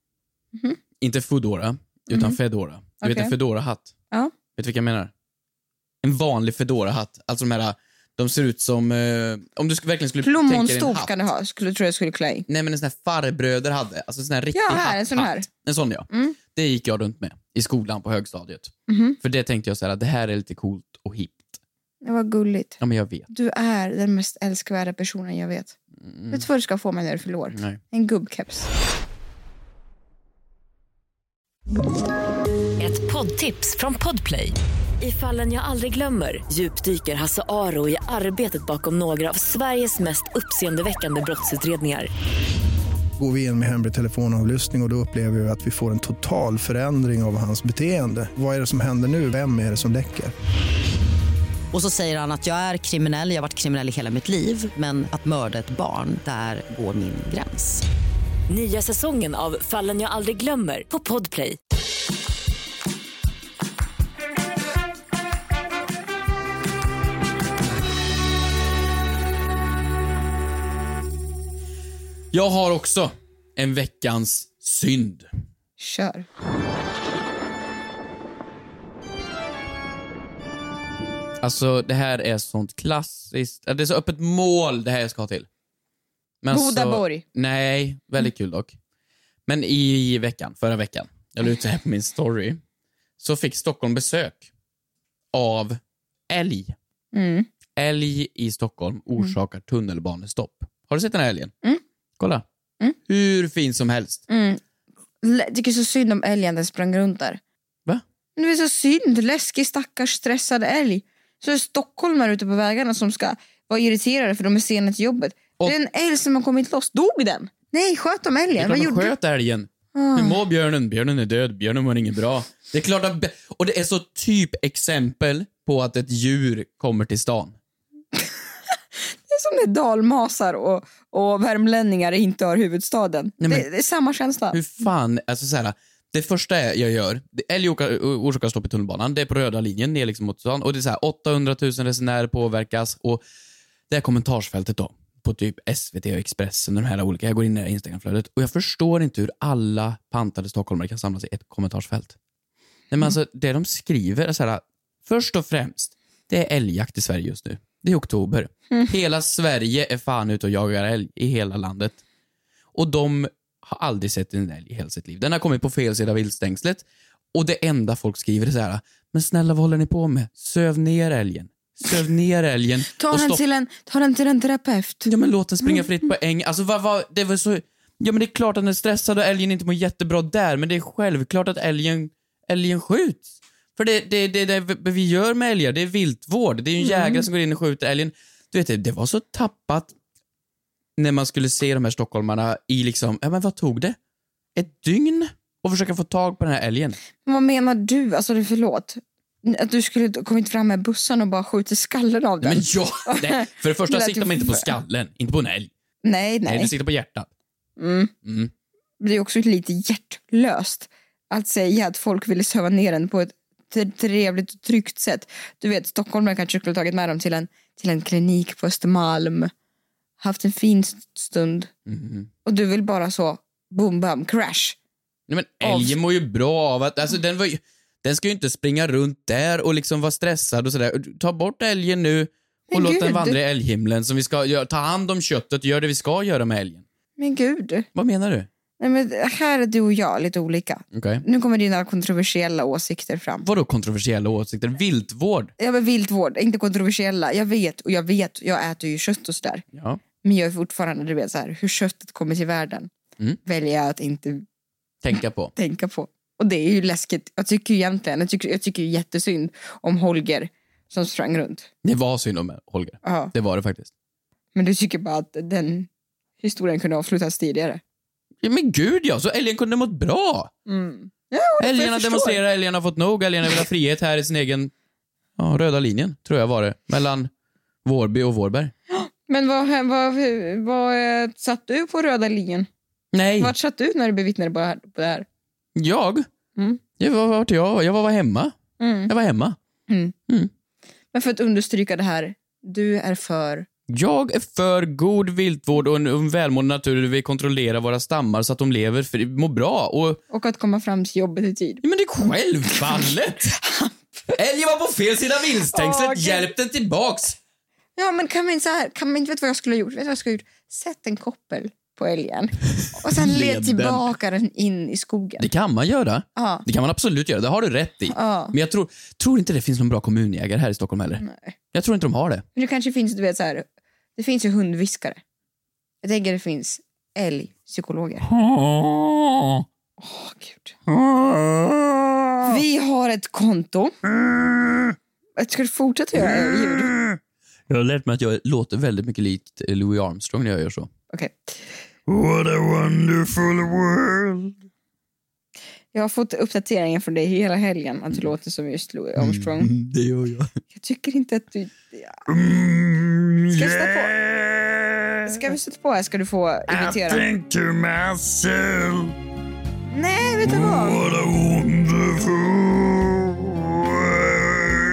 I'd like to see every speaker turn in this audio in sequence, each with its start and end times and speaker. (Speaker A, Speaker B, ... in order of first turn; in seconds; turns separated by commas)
Speaker A: 1.0-3.9, Speaker B: 2.1-2.4, Speaker B: 3.0-3.3, Speaker A: 4.5-5.1, Speaker A: 6.0-11.1, Speaker B: 10.2-12.4, Speaker A: 12.5-21.6, Speaker B: 14.5-15.5, Speaker B: 16.1-16.4, Speaker B: 18.9-19.2, Speaker B: 22.0-25.8, Speaker A: 22.8-23.3, Speaker A: 26.0-26.4, Speaker B: 26.3-28.7, Speaker A: 27.5-27.8, Speaker C: 32.8-42.1, Speaker D: 43.2-50.3, Speaker E: 51.7-57.9, Speaker C: 58.5-61.6, Speaker A: 72.3-75.3, Speaker B: 75.8-76.2, Speaker A: 81.4-85.5, Speaker A: 86.4-88.8, Speaker B: 86.5-87.2, Speaker A: 89.5-92.6, Speaker A: 93.2-94.4, Speaker A: 95.3-95.8, Speaker A: 96.3-96.8, Speaker B: 97.1-97.5, Speaker A: 97.8-101.5, Speaker A: 102.2-102.4, Speaker A: 103.1-104.2, Speaker B: 104.3-104.6, Speaker B: 105.2-107.4, Speaker B: 108.4-119.1, Speaker A: 118.5-127.5, Speaker B: 119.9-120.4, Speaker B: 129.3-134.6, Speaker A: 133.4-133.7, Speaker A: 134.5-143.2, Speaker A: 143.9-152.1, Speaker A: 152.9-162.0, Speaker A: 162.8-173.4, Speaker B: 172.9-175.1, Speaker A: 175.1-189.9, Speaker B: 186.8-187.2, Speaker A: 191.0-193.9, Speaker A: 194.6-197.0, Speaker B: 197.2-204.7, Speaker A: 202.4-205.7, Speaker B: 206.0-206.7, Speaker A: 206.4-207.3, Speaker B: 207.8-208.1, Speaker A: 208.2-208.5, Speaker B: 209.0-219.5, Speaker B: 220.2-221.7, Speaker A: 221.9-222.3, Speaker B: 222.4-224.8, Speaker A: 225.3-236.8, Speaker B: 225.6-225.9, Speaker B: 232.7-233.4, Speaker B: 237.2-237.9, Speaker A: 237.9-238.5, Speaker B: 238.8-243.5, Speaker A: 240.9-241.2, Speaker A: 243.4-245.5, Speaker B: 245.6-249.6, Speaker A: 249.7-250.0, Speaker B: 250.2-252.9, Speaker B: 253.4-254.4, Speaker A: 255.0-255.5, Speaker B: 255.6-261.7, Speaker A: 261.8-263.9, Speaker B: 263.0-263.3, Speaker B: 264.6-265.9, Speaker B: 266.4-267.8, Speaker A: 268.4-270.5, Speaker B: 270.7-272.4, Speaker A: 271.6-274.7, Speaker A: 275.4-277.3, Speaker A: 277.9-278.7, Speaker B: 278.9-282.7, Speaker A: 283.1-283.5, Speaker B: 283.4-285.2, Speaker A: 285.8-286.2, Speaker A: 287.0-288.5, Speaker B: 288.8-289.1, Speaker A: 289.1-289.6, Speaker B: 289.9-290.1, Speaker B: 291.1-293.6, Speaker A: 293.9-300.2, Speaker B: 300.3-301.8, Speaker A: 301.8-303.5, Speaker B: 302.7-304.4, Speaker A: 304.4-307.4, Speaker B: 305.7-306.5, Speaker B: 307.9-315.5, Speaker A: 313.1-314.1, Speaker A: 315.4-322.4, Speaker B: 316.4-316.6, Speaker B: 318.1-318.5, Speaker B: 321.2-321.5, Speaker B: 322.6-325.2, Speaker B: 326.0-328.2, Speaker A: 328.3-329.6, Speaker B: 330.0-330.7, Speaker A: 330.9-331.8, Speaker B: 332.4-333.9, Speaker B: 335.4-336.9, Speaker A: 337.7-340.9, Speaker B: 341.1-341.6, Speaker A: 342.1-344.5, Speaker B: 345.9-349.7, Speaker A: 349.2-350.5, Speaker B: 350.7-352.2, Speaker A: 352.3-355.1, Speaker B: 353.5-354.1, Speaker B: 355.2-357.3, Speaker A: 356.7-359.1, Speaker B: 359.9-361.1, Speaker A: 360.5-364.8